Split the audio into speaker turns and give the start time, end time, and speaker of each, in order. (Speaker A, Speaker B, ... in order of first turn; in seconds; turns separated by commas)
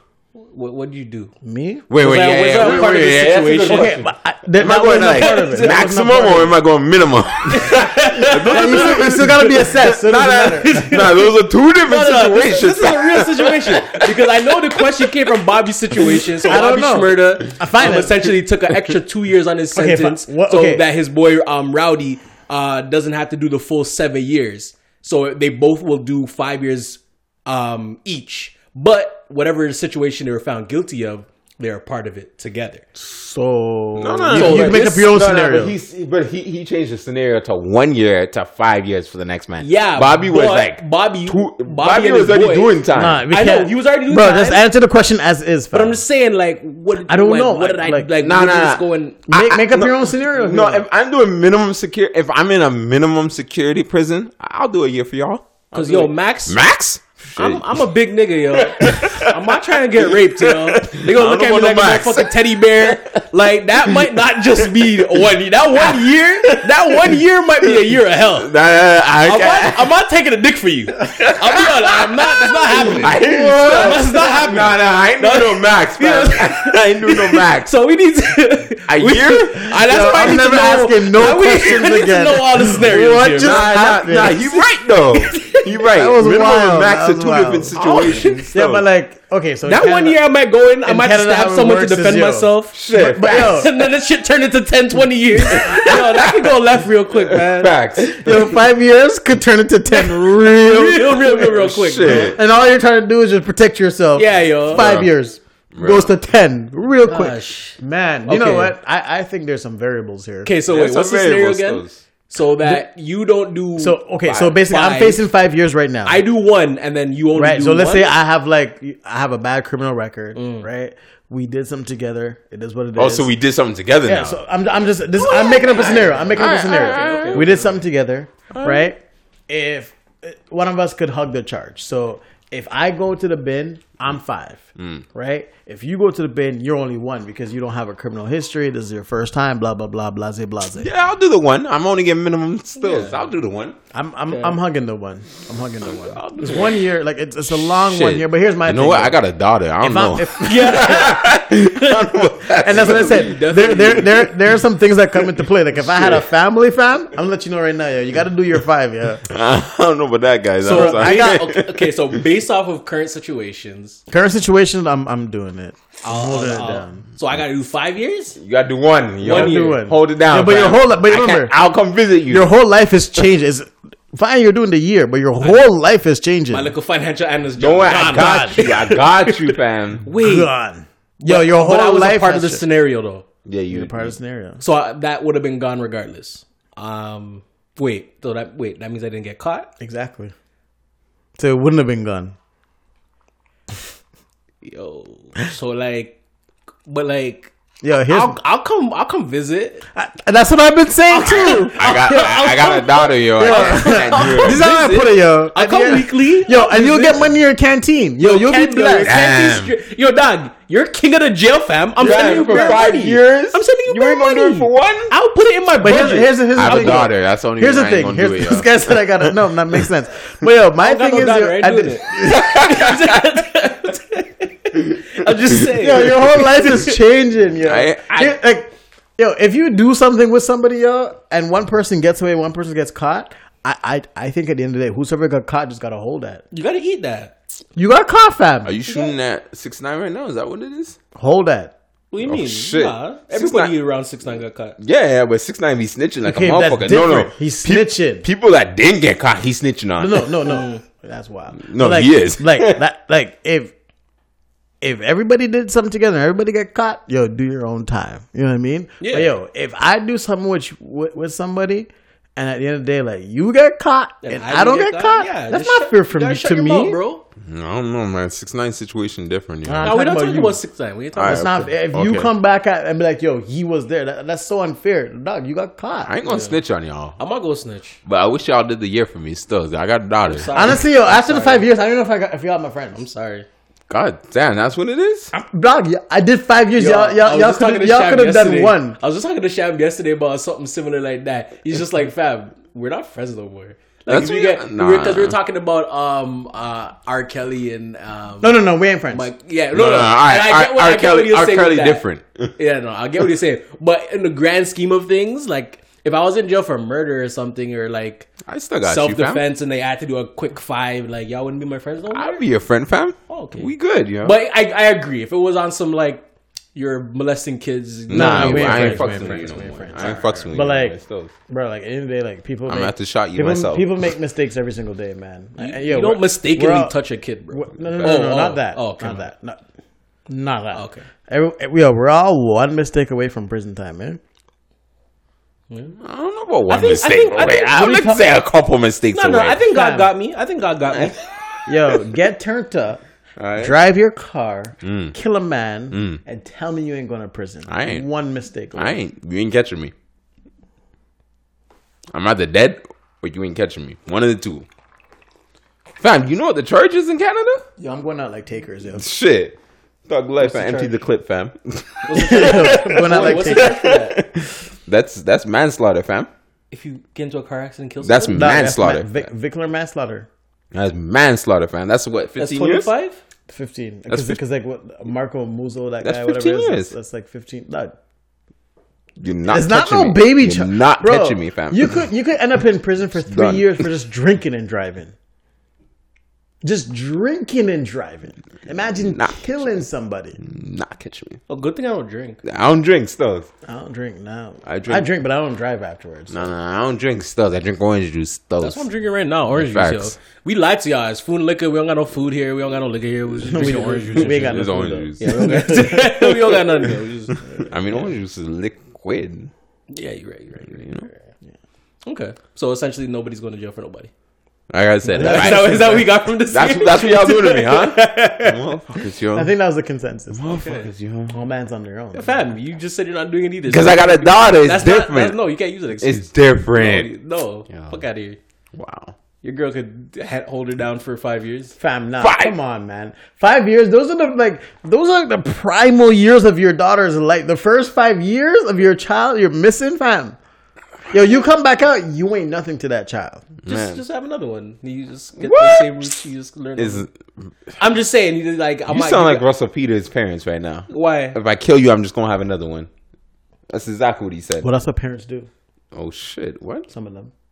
Speaker A: 0.3-1.3, Speaker B: 1.4-1.9, Speaker C: 1.9-15.1, Speaker A: 2.0-3.9, Speaker B: 2.6-2.9, Speaker B: 3.6-6.6, Speaker A: 5.1-5.6, Speaker A: 7.5-9.1, Speaker B: 8.4-10.9, Speaker A: 10.6-11.3, Speaker A: 11.8-32.9, Speaker C: 16.0-16.6, Speaker B: 16.4-18.2, Speaker B: 19.7-20.9, Speaker B: 33.0-35.8, Speaker C: 34.0-43.2, Speaker A: 34.3-35.1, Speaker A: 39.6-42.8, Speaker B: 42.9-46.0, Speaker A: 43.3-44.6, Speaker A: 45.7-49.2, Speaker B: 47.0-48.1, Speaker C: 48.2-57.8, Speaker B: 49.3-50.9, Speaker A: 55.7-56.6, Speaker A: 57.4-68.5, Speaker C: 58.6-63.2, Speaker C: 64.8-65.1, Speaker C: 65.7-69.9, Speaker A: 69.2-83.7, Speaker C: 71.0-77.7, Speaker B: 73.0-73.8, Speaker C: 78.9-80.5, Speaker B: 79.7-84.6, Speaker C: 82.7-88.8, Speaker A: 85.2-85.6, Speaker B: 85.8-87.8, Speaker A: 87.8-88.5, Speaker B: 88.5-90.2, Speaker A: 89.7-97.8, Speaker B: 90.8-93.7, Speaker C: 92.7-93.7, Speaker C: 95.5-96.6, Speaker C: 97.1-98.5, Speaker B: 98.2-101.5, Speaker A: 100.6-102.4, Speaker C: 100.7-102.4, Speaker B: 102.0-110.5, Speaker A: 104.2-104.9, Speaker C: 104.7-105.1, Speaker C: 105.7-106.1, Speaker A: 107.0-108.7, Speaker A: 110.4-115.2, Speaker C: 110.7-112.0, Speaker B: 113.8-116.2, Speaker A: 116.0-118.1, Speaker B: 117.3-123.3, Speaker A: 120.3-120.7, Speaker C: 123.0-124.4, Speaker B: 124.0-140.9, Speaker A: 125.2-127.8, Speaker C: 125.5-127.5, Speaker C: 128.5-128.9, Speaker C: 134.8-135.0, Speaker C: 140.8-143.8, Speaker A: 142.8-143.2, Speaker B: 143.9-149.2, Speaker A: 144.3-144.6, Speaker A: 146.2-146.6, Speaker C: 147.6-154.3, Speaker B: 149.8-151.0, Speaker A: 150.4-152.0, Speaker B: 152.6-159.2, Speaker A: 152.8-154.2, Speaker C: 155.8-156.2, Speaker C: 159.3-162.2, Speaker A: 160.6-164.0, Speaker B: 160.6-161.4, Speaker B: 164.1-167.0, Speaker A: 166.0-168.4, Speaker C: 168.4-172.5, Speaker B: 169.2-171.5, Speaker A: 169.2-169.8, Speaker B: 172.3-176.7, Speaker A: 176.5-180.5, Speaker C: 177.6-180.1, Speaker B: 177.9-178.7, Speaker B: 180.1-182.6, Speaker A: 181.2-183.2, Speaker C: 183.4-184.1, Speaker B: 183.7-184.6, Speaker A: 184.6-189.7, Speaker B: 189.8-190.3, Speaker B: 191.4-192.3, Speaker A: 194.6-196.2, Speaker A: 196.8-197.5, Speaker B: 197.8-198.4, Speaker A: 198.1-199.8, Speaker B: 199.9-202.4, Speaker A: 201.1-205.0, Speaker C: 201.3-205.1, Speaker B: 203.4-209.1, Speaker A: 205.5-207.3, Speaker A: 208.2-217.0, Speaker C: 209.0-209.7, Speaker C: 212.0-215.1, Speaker B: 215.8-222.4, Speaker C: 216.5-219.3, Speaker A: 220.8-226.9, Speaker C: 222.2-223.3, Speaker B: 225.7-236.4, Speaker C: 227.6-228.4, Speaker A: 236.5-237.4, Speaker B: 237.8-238.7, Speaker C: 238.6-241.0, Speaker B: 241.1-241.7, Speaker A: 242.1-244.8, Speaker C: 242.2-243.8, Speaker C: 244.8-250.3, Speaker B: 246.2-248.2, Speaker B: 250.0-253.7, Speaker A: 250.4-250.8, Speaker C: 251.6-252.8, Speaker B: 254.8-267.0, Speaker A: 259.0-259.3, Speaker A: 264.2-267.2, Speaker C: 267.4-270.0, Speaker B: 269.6-270.6, Speaker A: 269.8-271.6, Speaker C: 271.1-272.3, Speaker B: 271.2-276.1, Speaker C: 276.0-277.2, Speaker A: 276.2-276.6, Speaker A: 277.2-278.0, Speaker C: 278.0-280.8, Speaker A: 280.3-281.7, Speaker B: 280.5-283.0, Speaker A: 282.9-283.5, Speaker C: 283.9-285.3, Speaker B: 285.3-289.0, Speaker A: 286.8-298.6, Speaker C: 294.1-295.4, Speaker B: 298.4-299.3, Speaker A: 299.1-302.0, Speaker C: 299.7-302.5, Speaker A: 302.6-308.3, Speaker C: 308.4-309.4, Speaker A: 308.8-312.4, Speaker C: 312.1-314.4, Speaker A: 313.3-313.7, Speaker A: 314.2-320.4, Speaker C: 318.1-321.3, Speaker B: 318.1-320.9, Speaker B: 321.5-326.9, Speaker C: 322.7-324.0, Speaker A: 325.6-329.3, Speaker B: 327.5-329.6, Speaker C: 327.8-328.2, Speaker B: 330.3-334.2, Speaker A: 330.7-331.1, Speaker A: 335.7-336.0, Speaker C: 336.0-339.6, Speaker A: 336.7-338.0, Speaker B: 337.7-338.3, Speaker A: 339.1-341.2, Speaker B: 339.7-340.1, Speaker C: 340.9-341.2, Speaker B: 341.6-343.0, Speaker C: 343.4-343.8, Speaker B: 343.6-349.0, Speaker C: 344.8-345.1, Speaker C: 345.9-346.2, Speaker C: 347.7-348.1, Speaker C: 348.7-349.9, Speaker C: 352.1-354.6, Speaker C: 356.0-357.6, Speaker B: 357.8-359.0, Speaker C: 358.9-359.6, Speaker C: 360.1-366.3, Speaker A: 360.4-360.9, Speaker A: 362.0-364.2, Speaker B: 362.1-363.8, Speaker A: 366.7-368.6, Speaker C: 368.0-369.1, Speaker B: 368.3-370.3, Speaker C: 370.7-372.9, Speaker A: 372.4-373.2, Speaker B: 373.5-378.0, Speaker C: 374.1-374.4, Speaker C: 376.0-376.9, Speaker C: 379.2-382.0, Speaker B: 379.4-385.1, Speaker C: 383.2-383.8, Speaker B: 386.6-390.4, Speaker C: 388.9-389.8, Speaker C: 390.4-391.4, Speaker A: 391.5-392.4, Speaker C: 392.4-393.5, Speaker B: 393.6-396.5, Speaker C: 394.6-395.1, Speaker C: 396.3-398.9, Speaker A: 398.6-407.7, Speaker C: 399.5-400.1, Speaker B: 403.5-406.6, Speaker C: 403.5-405.8, Speaker B: 407.4-407.7, Speaker C: 407.6-409.5, Speaker A: 409.9-410.9, Speaker C: 410.6-411.1, Speaker A: 412.0-414.1, Speaker C: 414.7-419.5, Speaker B: 415.1-416.1, Speaker A: 415.1-418.6, Speaker B: 419.3-420.6, Speaker C: 420.3-421.4, Speaker A: 420.5-420.9, Speaker B: 421.3-422.4, Speaker A: 422.1-428.4, Speaker C: 423.7-425.4, Speaker C: 426.0-427.1, Speaker C: 427.7-428.0, Speaker C: 428.7-429.1, Speaker A: 429.4-431.8, Speaker B: 431.8-440.4, Speaker C: 432.2-432.6, Speaker B: 441.1-443.5, Speaker C: 443.6-444.0, Speaker A: 443.7-447.1, Speaker C: 445.4-446.1, Speaker C: 446.8-447.8, Speaker A: 447.8-449.4, Speaker C: 448.9-452.9, Speaker A: 450.9-451.4, Speaker C: 453.7-454.7, Speaker B: 454.6-455.5, Speaker C: 455.9-456.9, Speaker B: 456.9-457.3